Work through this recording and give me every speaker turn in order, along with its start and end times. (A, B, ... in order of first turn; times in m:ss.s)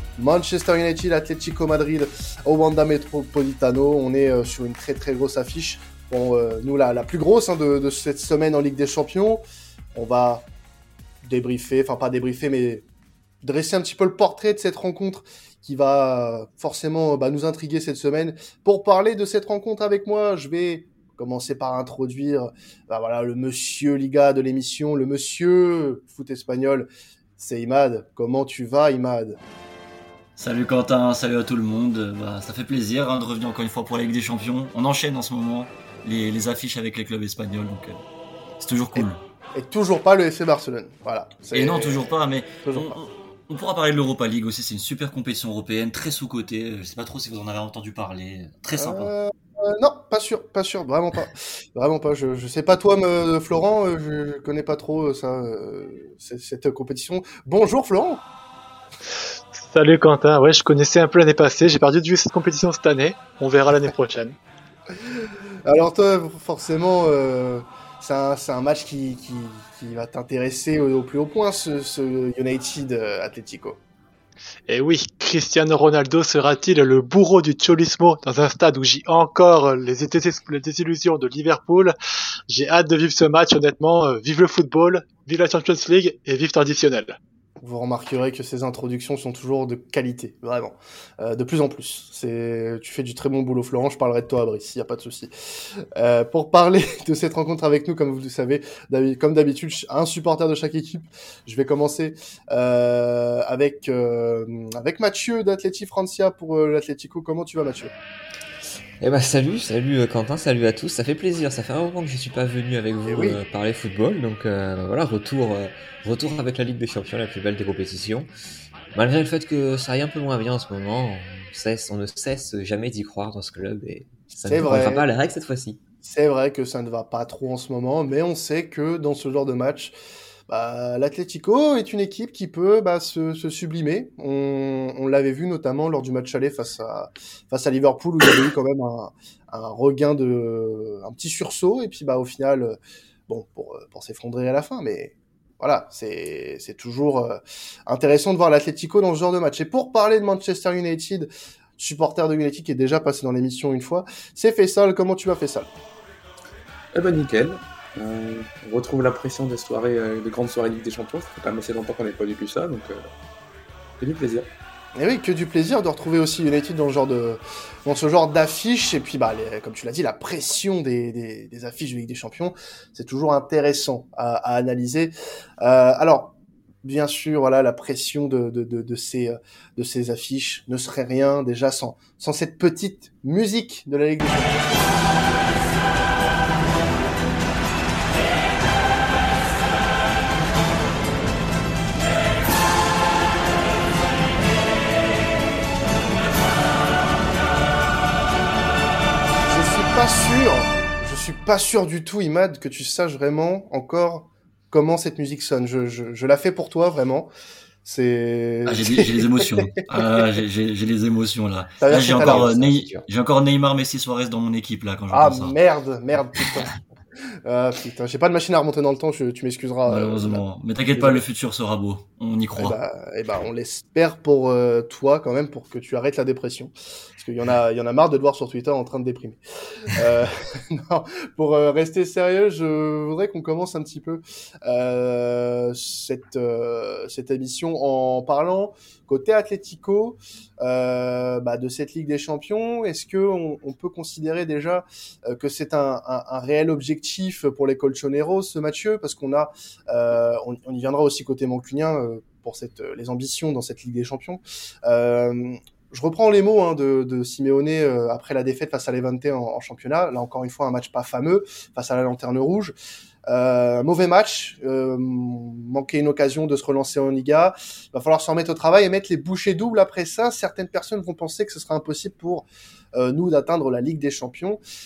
0:00.2-0:09.4 A
0:09.9-0:10.4 A
0:11.2-0:12.8 A
0:13.4-0:29.4 A
0:30.4-0:38.0 B
0:38.6-0:39.2 B
0:38.9-0:42.1 A
0:41.5-0:49.1 B
0:42.6-0:43.0 A
0:48.8-0:58.2 A
0:59.5-1:04.4 C
1:05.6-1:13.8 A
1:14.7-1:21.9 C
1:22.5-1:27.2 C
1:27.6-1:35.3 A
1:35.9-1:47.9 A
1:49.0-1:58.3 D
1:53.0-1:53.4 A
1:58.9-2:05.8 D
2:04.4-2:05.0 A
2:06.0-2:09.9 A
2:10.5-2:35.7 A
2:36.9-2:43.1 E
2:44.0-2:44.5 E
2:45.0-3:04.7 A
3:19.5-3:27.3 A
3:27.8-3:30.2 A
3:28.6-3:35.6 B
3:31.8-3:33.0 A
3:35.1-3:36.8 A
3:37.4-3:41.2 A
3:39.8-3:42.8 B
3:42.6-4:22.7 A
4:23.3-4:34.6 A